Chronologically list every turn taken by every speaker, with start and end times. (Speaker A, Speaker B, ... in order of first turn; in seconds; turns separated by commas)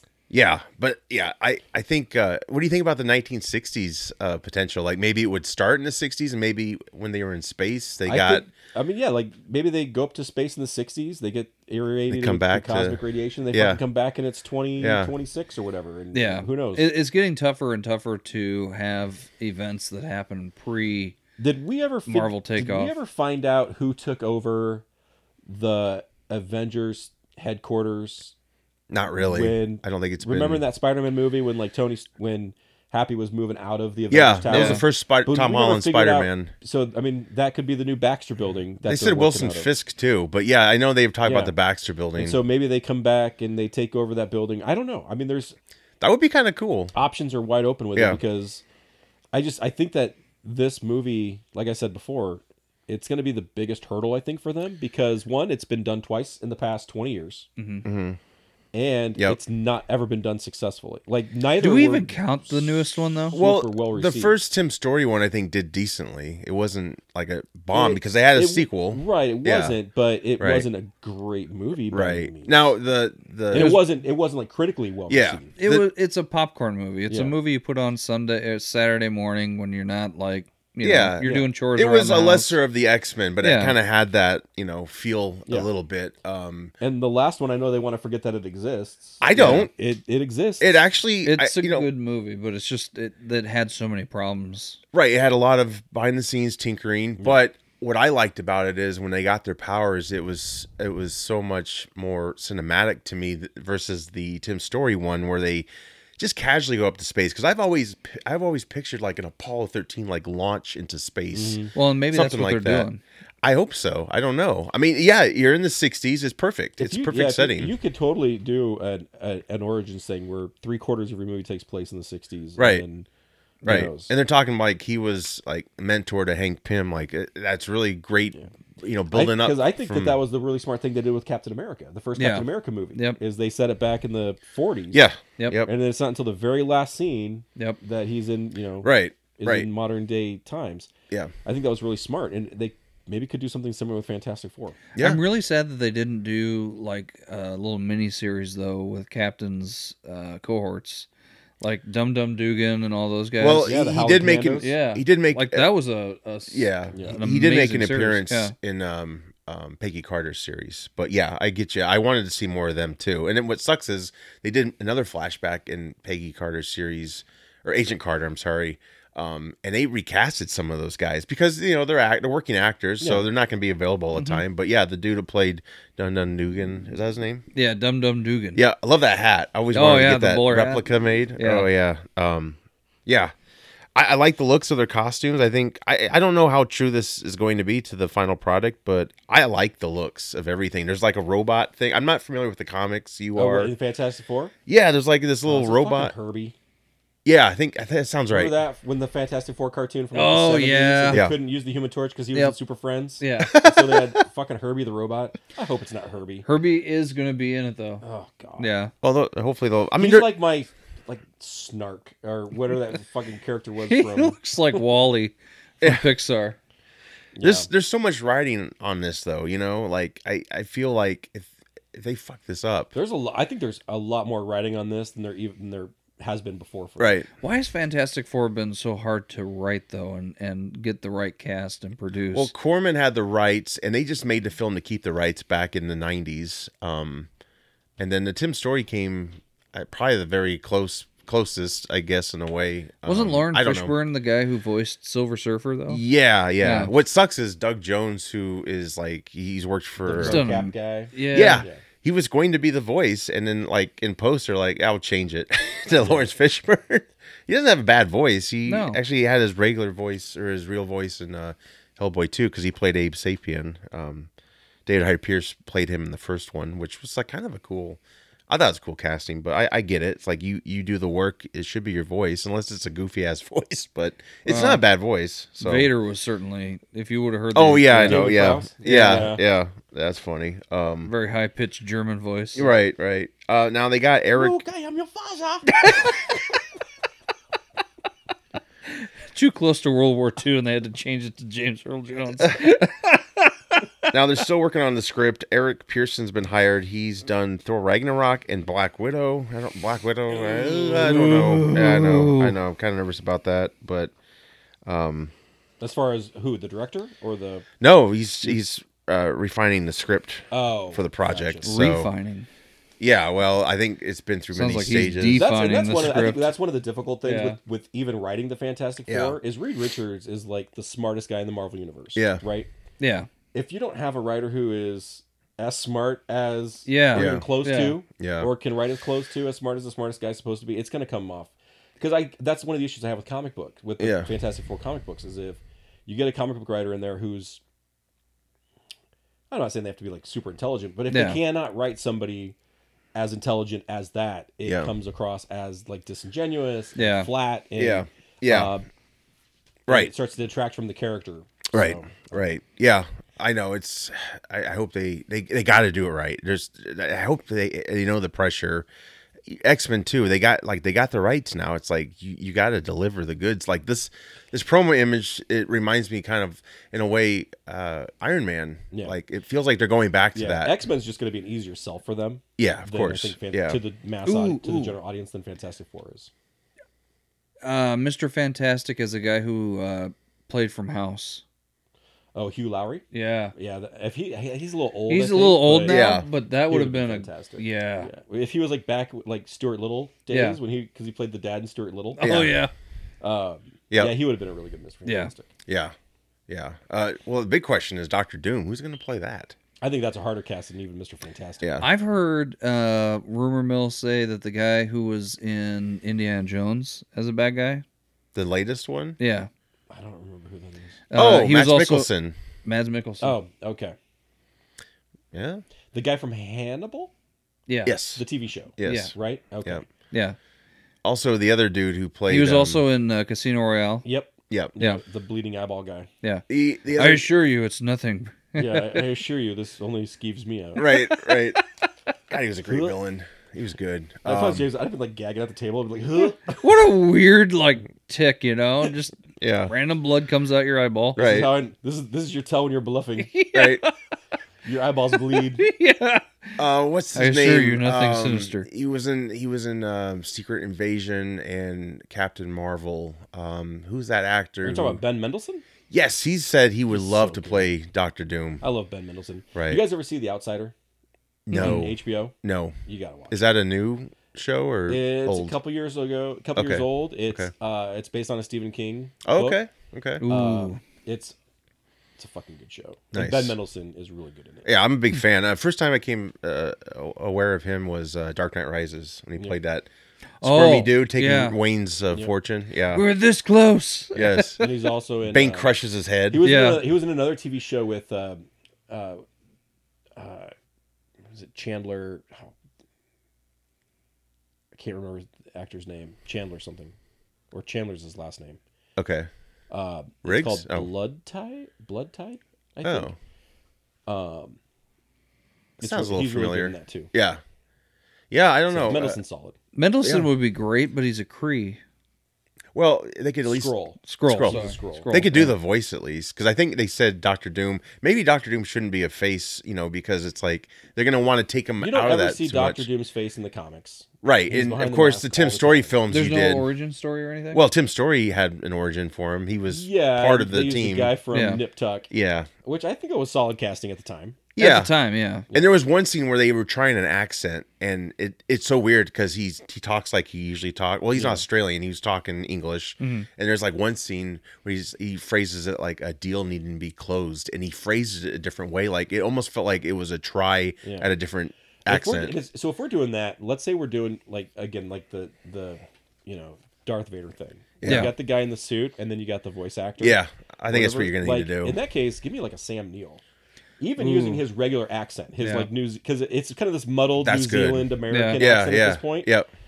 Speaker A: 0.3-8.5, Speaker B: 8.1-16.9, Speaker A: 12.1-13.0, Speaker A: 13.5-13.8, Speaker A: 14.8-15.1, Speaker C: 16.1-21.2, Speaker B: 21.4-24.9, Speaker C: 22.1-22.9, Speaker B: 25.5-28.4, Speaker A: 28.9-30.6, Speaker B: 29.2-39.7, Speaker A: 34.1-36.5, Speaker C: 34.5-34.8, Speaker A: 38.9-42.4, Speaker B: 41.2-41.5, Speaker B: 42.2-45.6, Speaker A: 46.0-46.9, Speaker B: 46.9-48.6, Speaker B: 49.3-57.5, Speaker C: 57.6-57.9, Speaker A: 57.8-58.2, Speaker B: 58.7-62.6, Speaker C: 61.6-63.4, Speaker B: 63.2-64.3, Speaker A: 63.3-69.8, Speaker B: 67.7-72.7, Speaker A: 70.4-70.7, Speaker A: 71.9-73.8, Speaker B: 73.5-75.5, Speaker A: 75.1-75.9, Speaker C: 75.6-82.6, Speaker B: 77.1-77.3, Speaker A: 80.8-86.7, Speaker B: 81.2-81.5, Speaker C: 83.4-83.8, Speaker B: 86.8-90.8, Speaker A: 89.2-89.7, Speaker A: 90.6-91.9, Speaker C: 91.2-94.8, Speaker A: 94.9-112.9, Speaker B: 111.3-111.7, Speaker C: 111.7-113.0, Speaker A: 113.4-117.7, Speaker B: 116.8-123.1, Speaker A: 122.6-122.8, Speaker B: 123.7-124.1, Speaker A: 123.7-130.2, Speaker B: 129.1-135.0, Speaker C: 132.2-133.2, Speaker A: 134.9-135.7, Speaker B: 135.7-140.9, Speaker A: 138.8-139.7, Speaker B: 141.4-144.8, Speaker A: 145.0-145.2, Speaker C: 145.0-151.1, Speaker C: 151.6-153.7, Speaker A: 153.4-155.7, Speaker B: 153.6-154.7, Speaker C: 154.6-158.5, Speaker A: 156.5-177.4, Speaker B: 156.9-157.2, Speaker B: 173.0-173.3, Speaker C: 174.1-174.4, Speaker C: 177.6-178.6, Speaker A: 178.6-183.3, Speaker C: 179.7-180.8, Speaker C: 181.4-181.7, Speaker A: 183.9-193.7, Speaker B: 193.3-194.5, Speaker A: 194.7-196.1, Speaker B: 195.5-196.6, Speaker A: 197.2-198.6, Speaker B: 198.3-206.5, Speaker C: 200.1-201.2, Speaker C: 203.2-203.6, Speaker A: 203.4-204.2, Speaker C: 206.4-208.0, Speaker B: 208.0-208.7, Speaker C: 208.6-208.9, Speaker A: 209.0-210.3, Speaker B: 210.0-214.8, Speaker C: 213.9-216.6, Speaker B: 217.4-217.7, Speaker A: 217.4-222.9, Speaker B: 222.9-227.2, Speaker A: 227.0-227.3, Speaker C: 227.4-232.5, Speaker A: 232.3-237.3, Speaker A: 238.0-243.9, Speaker C: 243.1-246.0, Speaker A: 245.9-250.5, Speaker C: 246.6-246.9, Speaker B: 250.1-251.8, Speaker C: 250.2-251.7, Speaker A: 251.3-264.3, Speaker B: 256.0-256.3, Speaker C: 258.7-259.0, Speaker A: 264.9-275.9, Speaker C: 274.5-274.8, Speaker C: 275.6-279.4, Speaker A: 277.6-281.1, Speaker B: 278.0-279.4, Speaker C: 281.1-282.7, Speaker A: 282.6-284.6, Speaker B: 284.3-286.1, Speaker C: 289.0-293.9, Speaker A: 294.1-304.1, Speaker B: 300.4-300.9, Speaker C: 300.9-302.6, Speaker A: 304.9-305.3, Speaker B: 305.8-307.7, Speaker A: 307.8-312.1, Speaker B: 310.5-311.8, Speaker C: 311.6-312.5, Speaker A: 313.0-315.4, Speaker C: 314.5-316.5, Speaker B: 315.3-322.7, Speaker C: 317.2-317.6, Speaker A: 319.1-319.4, Speaker A: 322.2-322.4, Speaker C: 323.0-323.3, Speaker B: 323.5-337.6, Speaker C: 326.9-328.0, Speaker A: 327.1-327.5, Speaker A: 328.2-328.5, Speaker A: 334.0-334.3, Speaker B: 339.5-342.6, Speaker C: 341.1-341.4, Speaker B: 343.1-348.9, Speaker A: 344.6-344.9, Speaker C: 347.0-347.3, Speaker A: 347.8-348.7, Speaker B: 349.9-352.5, Speaker A: 351.7-358.9, Speaker A: 359.5-370.7, Speaker B: 370.4-376.3, Speaker A: 372.6-373.8, Speaker C: 374.2-375.0, Speaker C: 377.6-381.4, Speaker B: 382.4-386.1, Speaker C: 383.1-383.5, Speaker C: 385.1-388.1, Speaker A: 385.9-386.3, Speaker B: 386.7-392.5, Speaker C: 390.3-390.6, Speaker C: 392.2-392.7, Speaker A: 392.2-392.6, Speaker B: 393.2-395.5, Speaker C: 395.1-395.3, Speaker A: 395.7-395.9, Speaker A: 396.5-399.6, Speaker B: 399.8-401.7, Speaker C: 401.8-407.8, Speaker A: 408.4-409.2, Speaker C: 409.2-409.5, Speaker B: 409.9-411.0, Speaker C: 411.1-412.1, Speaker A: 411.1-412.4, Speaker C: 412.6-413.4, Speaker B: 413.2-414.0, Speaker A: 415.3-415.6, Speaker B: 415.9-417.1, Speaker C: 417.7-418.0, Speaker A: 417.9-418.2, Speaker B: 418.2-419.9, Speaker A: 418.8-419.1, Speaker C: 418.8-419.1, Speaker C: 420.1-420.4, Speaker A: 421.0-422.8, Speaker C: 422.3-424.1, Speaker B: 424.1-426.1, Speaker A: 424.5-424.8, Speaker C: 426.2-429.1, Speaker A: 426.5-427.3, Speaker B: 428.6-430.9, Speaker A: 430.8-431.6, Speaker C: 430.8-431.3, Speaker A: 432.3-434.6, Speaker B: 432.7-432.9, Speaker B: 434.2-436.6, Speaker C: 436.5-441.2, Speaker A: 439.4-439.7, Speaker B: 441.2-443.3, Speaker A: 441.2-441.5, Speaker C: 443.2-444.0, Speaker A: 443.5-443.9, Speaker B: 444.6-445.7, Speaker C: 445.4-446.6, Speaker A: 446.6-455.0, Speaker C: 447.1-448.7, Speaker B: 454.6-455.7, Speaker A: 455.9-458.6, Speaker B: 456.9-457.7, Speaker B: 458.6-460.7, Speaker A: 459.6-459.8, Speaker A: 461.5-462.8, Speaker C: 461.5-461.9, Speaker B: 461.5-463.5, Speaker A: 463.3-465.6, Speaker B: 464.9-469.6, Speaker A: 466.6-467.5, Speaker A: 469.2-470.2, Speaker C: 470.2-470.8, Speaker B: 470.2-471.4, Speaker B: 472.2-474.7, Speaker A: 473.1-473.6, Speaker A: 474.6-479.9, Speaker C: 480.4-481.6, Speaker A: 480.4-483.1, Speaker C: 482.9-484.6, Speaker A: 484.1-484.7, Speaker B: 484.6-485.8, Speaker A: 485.3-486.4, Speaker B: 486.3-489.2, Speaker C: 486.4-486.9, Speaker B: 490.1-490.5, Speaker B: 491.3-492.5, Speaker B: 494.7-496.9, Speaker B: 497.5-498.6, Speaker A: 499.0-499.3, Speaker B: 499.7-503.1, Speaker A: 500.2-500.9, Speaker A: 502.8-503.1, Speaker B: 504.1-504.6, Speaker A: 505.8-507.4, Speaker B: 505.8-507.1, Speaker A: 508.3-509.2, Speaker B: 508.7-509.6, Speaker C: 509.8-511.8, Speaker A: 510.0-510.3, Speaker A: 512.7-513.7, Speaker B: 513.5-515.5, Speaker C: 514.1-515.5, Speaker A: 514.3-522.9, Speaker B: 521.8-526.0, Speaker A: 524.2-526.7, Speaker C: 526.1-527.6, Speaker A: 527.5-531.1, Speaker B: 529.7-532.1, Speaker C: 531.3-531.6, Speaker A: 532.1-532.5, Speaker B: 532.6-534.5, Speaker A: 534.6-534.9, Speaker C: 534.6-535.5, Speaker A: 535.5-552.4, Speaker B: 541.1-541.5, Speaker C: 543.0-543.3, Speaker B: 550.8-551.1, Speaker B: 551.9-563.2, Speaker A: 557.8-558.1, Speaker C: 557.8-558.1, Speaker A: 560.0-561.8, Speaker B: 563.8-569.3, Speaker C: 564.0-564.4, Speaker C: 565.4-565.7, Speaker A: 567.2-569.5, Speaker C: 568.1-568.4